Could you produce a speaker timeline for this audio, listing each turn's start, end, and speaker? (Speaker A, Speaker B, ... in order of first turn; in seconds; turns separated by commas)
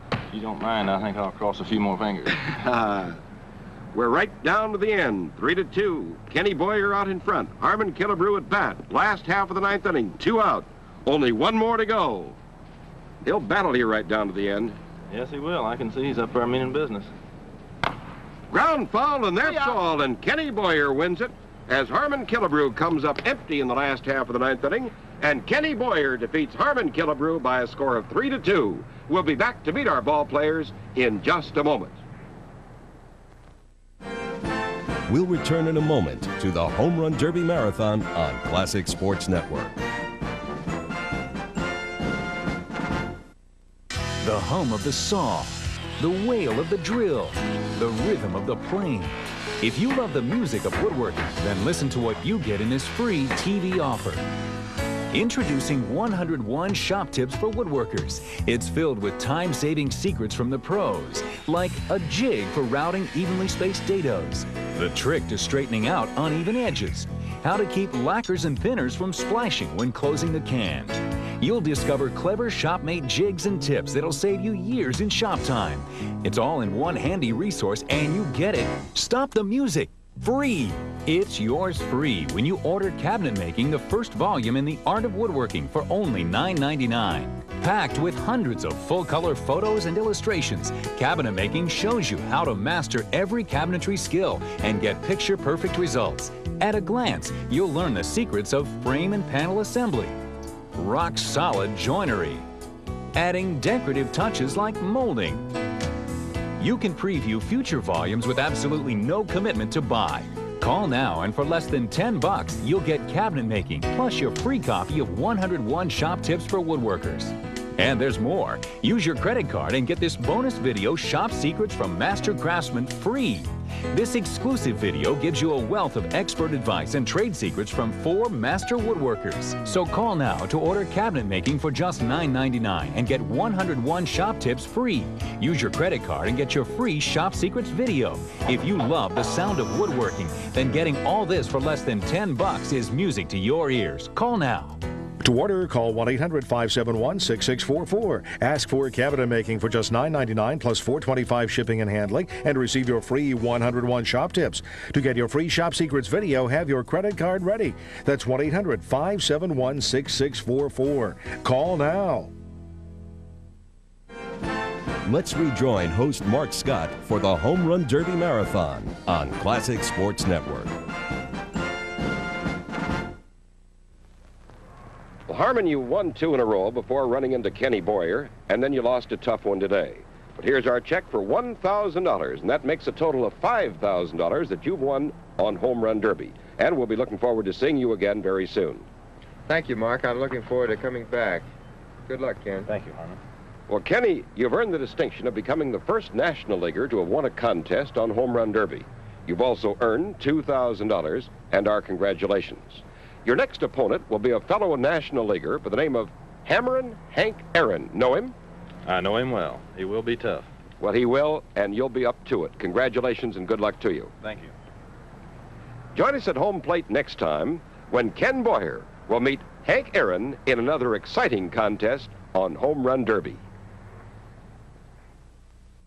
Speaker A: 0.3-3.2, Speaker B: 3.9-12.4, Speaker B: 13.2-14.8, Speaker A: 15.1-17.1, Speaker B: 18.5-32.0, Speaker C: 35.1-39.8, Speaker D: 44.2-54.2, Speaker D: 55.1-100.2, Speaker D: 100.8-102.4, Speaker D: 103.2-105.5, Speaker D: 106.6-144.8, Speaker E: 145.2-162.3, Speaker C: 165.1-170.7, Speaker B: 175.3-188.9, Speaker F: 189.5-191.5, Speaker F: 192.1-192.7, Speaker A: 192.7-193.2, Speaker B: 193.7-208.3, Speaker A: 208.9-210.5, Speaker B: 210.8-214.1, Speaker A: 214.2-214.5, Speaker B: 215.9-223.4